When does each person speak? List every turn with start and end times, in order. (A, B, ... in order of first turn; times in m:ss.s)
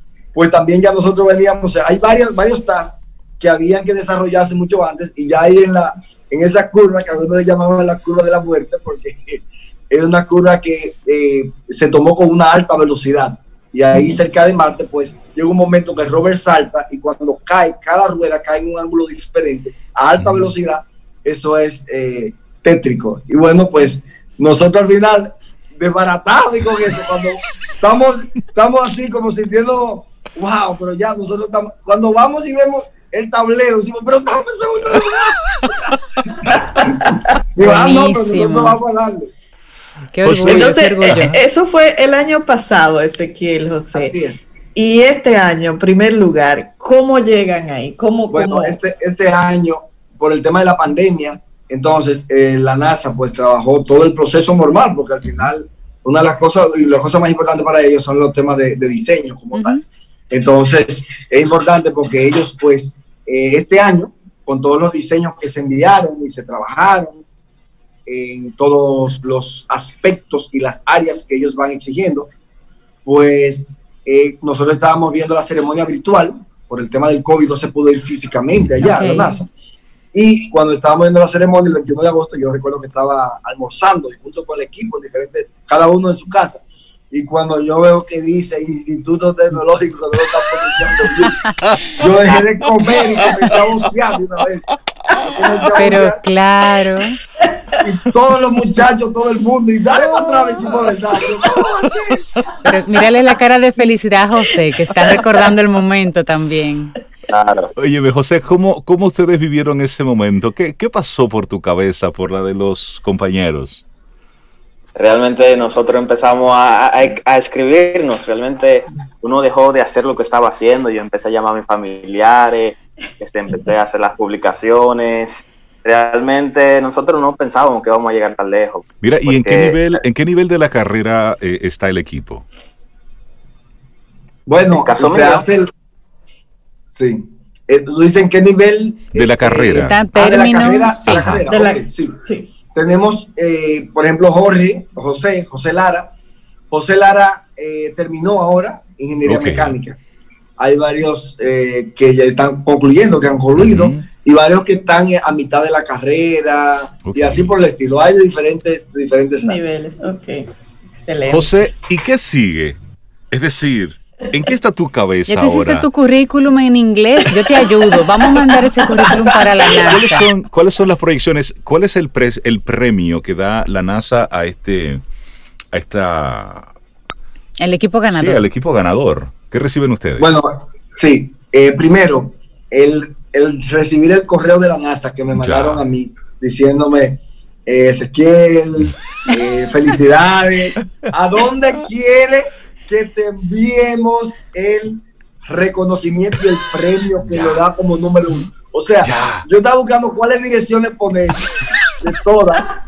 0:00.3-0:35.8 A
0:20.2-0:20.5 B
0:36.4-0:39.3 A
0:37.6-0:38.8 C
0:40.1-0:41.4 C
0:40.2-0:41.4 B
0:40.4-0:44.1 D
0:43.9-0:44.4 A
0:44.7-0:48.8 D
0:48.3-0:59.8 A
0:55.2-0:55.5 B
0:59.5-0:59.8 C
1:00.3-1:07.2 A
1:08.1-1:12.3 A
1:13.0-1:19.5 A
1:18.8-1:19.4 C
1:20.1-1:31.4 A
1:31.9-1:34.6 A
1:35.2-1:36.2 A
1:35.8-1:37.2 C
1:37.8-1:42.2 A
1:42.6-1:46.9 C
1:47.3-1:47.7 E
1:47.8-1:53.8 B
1:55.0-2:10.0 E
2:09.0-2:12.5 B
2:14.5-2:15.7 A
2:14.7-2:15.4 E
2:16.9-2:22.2 A
2:19.1-2:20.0 B
2:19.7-2:21.3 C
2:21.0-2:21.4 B
2:21.5-2:22.5 D
2:22.7-2:26.1 A
2:26.7-2:30.0 A
2:29.2-2:29.8 B
2:30.6-2:39.6 A
2:33.6-2:34.0 B
2:37.0-2:37.5 B
2:39.4-2:41.5 D
2:41.3-2:42.8 B
2:43.3-2:45.9 B
2:45.3-2:50.3 C
2:49.0-2:49.6 D
2:49.8-2:55.0 B
2:55.7-2:56.7 B
2:57.6-2:58.4 C
2:58.1-3:00.4 B
3:00.2-3:21.4 A
3:05.3-3:05.8 B
3:17.2-3:17.6 B
3:19.0-3:19.4 B
3:22.0-3:22.7 A